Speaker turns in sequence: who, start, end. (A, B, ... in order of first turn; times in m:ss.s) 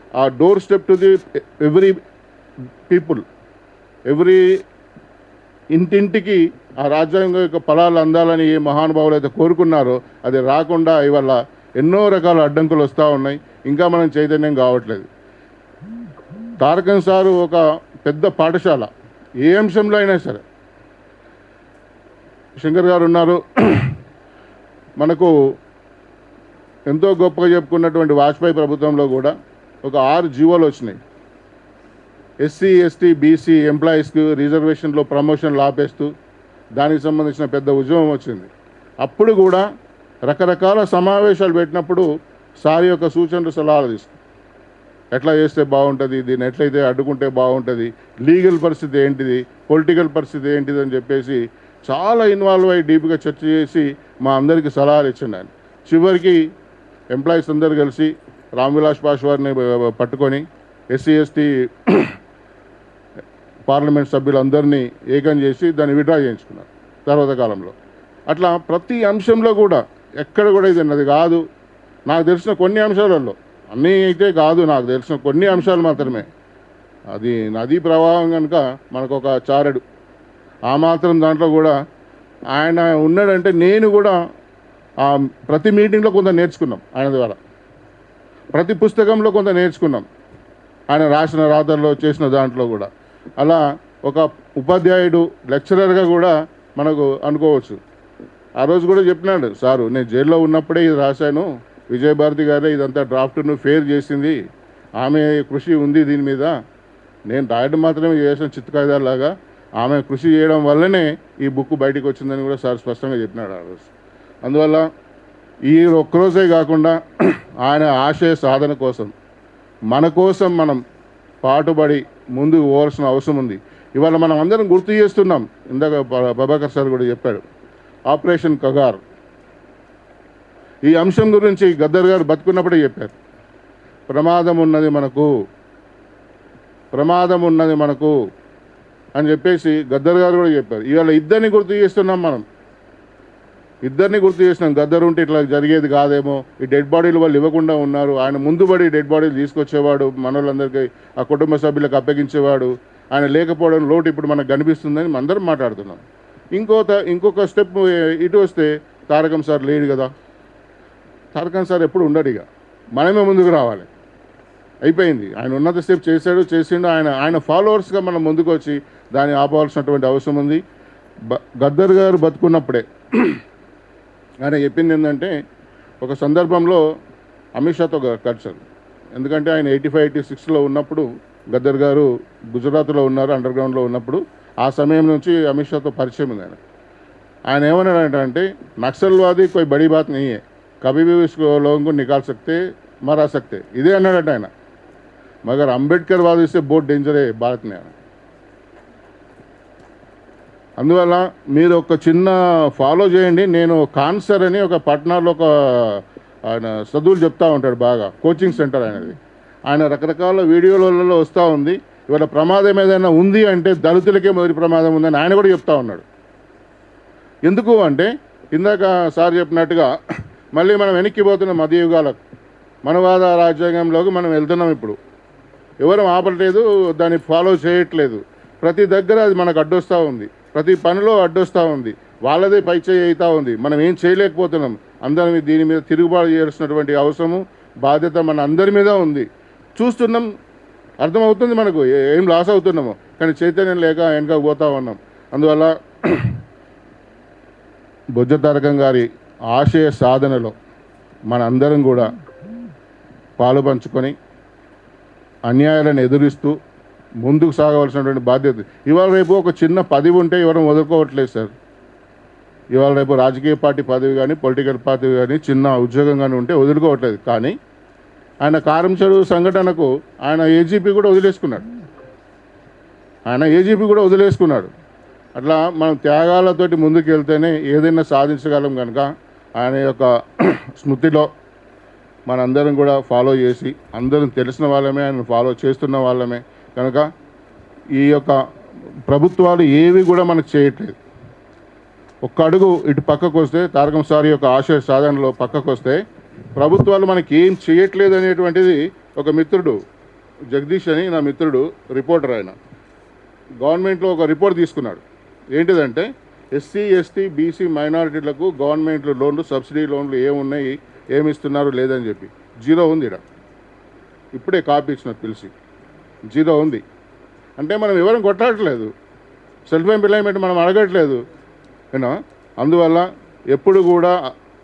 0:00.2-0:02.0 A
0:02.9-0:03.2 A
0:04.1-0:04.4 A
0:05.7-0:15.1 A
0:16.6-0:18.9 A
0:19.4-0:20.4 A
0:22.6-0:24.0 A
0:25.0-0:25.3 A
0:26.9-0:31.0 A
0:32.4-0:36.1 A
0:36.8-0:38.5 A
0:39.0-0:39.6 A
0:40.3-0:42.1 A
0:42.6-0:44.2 A
0:45.1-0:56.4 A
0:57.1-1:02.2 A
1:03.7-1:07.7 A
1:08.3-1:11.4 A
1:12.1-1:16.3 A
1:17.1-1:19.8 A
1:20.7-1:21.8 A
1:22.5-1:24.2 A
1:25.0-1:27.4 A
1:28.6-1:30.1 A
1:30.9-1:32.9 A
1:33.4-1:37.8 A
1:38.6-1:44.4 A
1:45.0-1:46.6 A
1:47.3-1:53.9 A
1:54.4-1:54.9 A
1:55.7-1:59.1 A
1:59.9-2:00.8 A
2:01.4-2:07.4 A
2:08.1-2:09.0 A
2:10.9-2:13.2 A
2:14.1-2:15.3 A
2:17.0-2:18.2 A
2:19.2-2:22.4 A
2:23.9-2:36.0 A
2:36.6-2:40.1 A
2:41.3-2:42.4 A
2:43.0-2:43.9 A
2:44.9-2:50.6 A
2:51.3-2:53.4 A
2:54.4-2:55.4 A
2:56.0-2:56.8 A
2:57.6-2:58.6 A
2:59.2-3:06.6 A
3:07.5-3:14.5 A
3:15.5-3:17.9 A
3:20.8-3:29.2 A
3:29.7-3:36.0 A
3:37.5-3:39.9 A
3:40.6-3:42.2 A
3:42.8-3:45.0 A
3:45.8-4:00.3 A
4:01.0-4:06.4 A
4:08.2-4:10.6 A
4:11.3-4:12.1 A
4:13.4-4:14.2 A
4:15.5-4:16.6 A
4:17.2-4:21.5 A
4:22.7-4:27.6 A
4:28.4-4:31.7 A
4:33.3-4:34.7 A
4:35.4-4:41.3 A
4:42.3-4:47.1 A
4:48.0-4:48.4 A
4:49.1-4:51.0 A
4:52.2-4:56.0 A
4:56.6-4:59.8 A
5:00.5-5:02.6 A
5:03.6-5:05.0 A
5:05.5-5:13.2 A
5:14.3-5:15.5 A
5:16.3-5:16.8 A
5:17.6-5:18.9 A
5:19.7-5:21.2 A
5:21.9-5:24.2 A